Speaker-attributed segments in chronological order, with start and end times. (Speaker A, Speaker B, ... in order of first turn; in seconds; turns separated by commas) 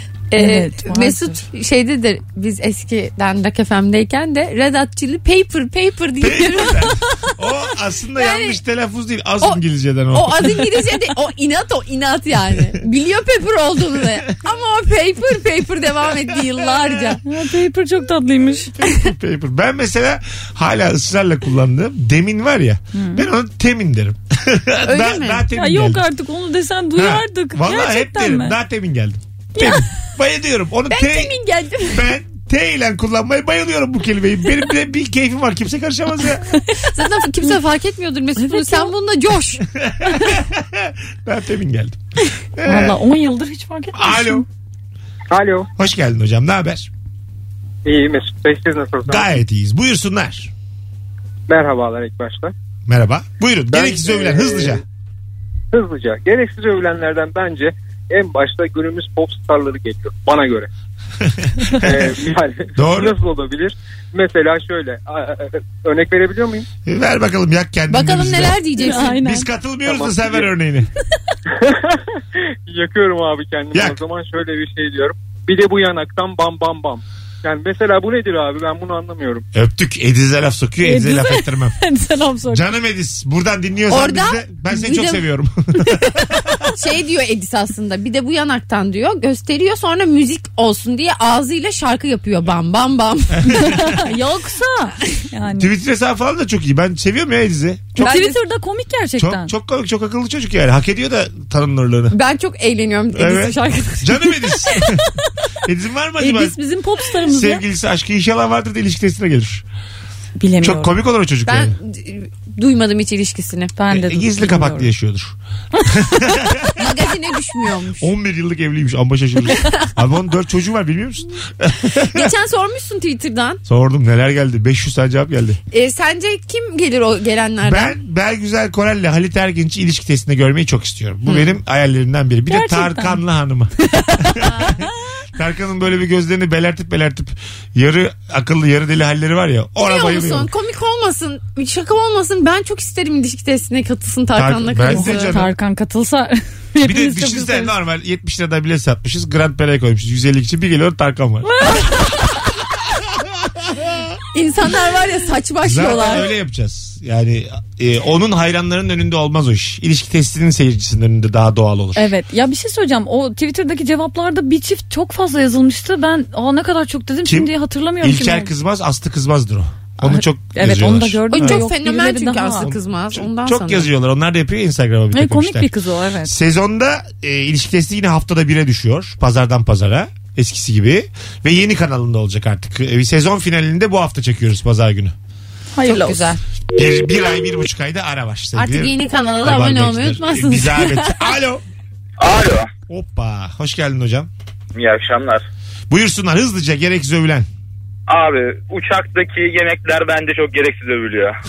Speaker A: 0.3-7.1, Speaker B: 0.4-1.4, Speaker C: 6.2-10.8, Speaker A: 8.2-8.6, Speaker A: 9.4-17.2, Speaker B: 17.2-18.7, Speaker C: 18.8-26.0, Speaker B: 22.9-23.3, Speaker A: 24.8-25.5, Speaker B: 25.5-28.6, Speaker C: 27.0-31.4, Speaker B: 29.6-29.9, Speaker A: 30.9-32.1, Speaker C: 31.9-36.5, Speaker B: 36.5-36.8, Speaker A: 36.9-39.6, Speaker B: 38.4-38.9, Speaker C: 39.7-42.0, Speaker C: 42.6-43.0, Speaker B: 42.6-44.5, Speaker C: 43.9-44.5, Speaker D: 45.3-45.7, Speaker C: 45.8-46.9, Speaker D: 47.9-49.4, Speaker C: 49.1-50.5, Speaker D: 51.5-52.5, Speaker C: 52.9-54.8, Speaker D: 53.7-54.8, Speaker D: 55.7-60.7, Speaker C: 61.2-62.1, Speaker D: 61.7-66.7, Speaker C: 62.8-63.2, Speaker C: 66.9-70.9, Speaker A: 67.9-69.2, Speaker B: 68.8-69.5, Speaker D: 69.9-70.5, Speaker D: 71.5-79.5, Speaker C: 79.5-81.8, Speaker B: 80.8-82.7, Speaker C: 82.5-86.7, Speaker A: 83.9-85.3, Speaker A: 86.0-93.8, Speaker C: 93.4-94.0, Speaker B: 93.5-95.7, Speaker C: 95.5-98.2, Speaker B: 98.0-99.5, Speaker A: 98.0-98.4, Speaker C: 99.2-102.2, Speaker A: 102.1-104.4, Speaker C: 103.1-106.6, Speaker B: 106.2-107.6, Speaker C: 107.2-109.6, Speaker B: 110.4-110.9, Speaker C: 110.6-111.8, Speaker A: 111.5-113.8, Speaker B: 113.8-114.9, Speaker C: 113.9-116.8, Speaker A: 116.7-118.1, Speaker C: 118.0-122.3, Speaker A: 119.5-119.9, Speaker A: 122.0-123.6, Speaker C: 123.7-125.6, Speaker A: 125.7-128.0, Speaker C: 127.6-140.5, Speaker A: 131.3-131.6, Speaker B: 132.5-133.2, Speaker B: 133.9-134.5, Speaker A: 134.4-134.8, Speaker A: 139.8-145.4, Speaker C: 144.3-145.5, Speaker B: 144.8-147.7, Speaker C: 146.8-152.1, Speaker B: 151.4-152.4, Speaker C: 153.6-154.1, Speaker A: 154.3-156.3, Speaker C: 155.6-162.1, Speaker B: 162.0-168.5, Speaker C: 167.2-171.7, Speaker B: 170.0-172.7, Speaker A: 171.3-173.9, Speaker C: 172.6-175.7, Speaker B: 175.1-176.3, Speaker C: 176.2-185.2, Speaker B: 185.8-186.3, Speaker A: 185.8-186.4, Speaker C: 186.7-191.6, Speaker A: 188.6-191.3, Speaker E: 192.2-192.7, Speaker C: 192.9-194.3, Speaker E: 194.8-195.4, Speaker C: 195.9-197.5, Speaker E: 198.1-201.3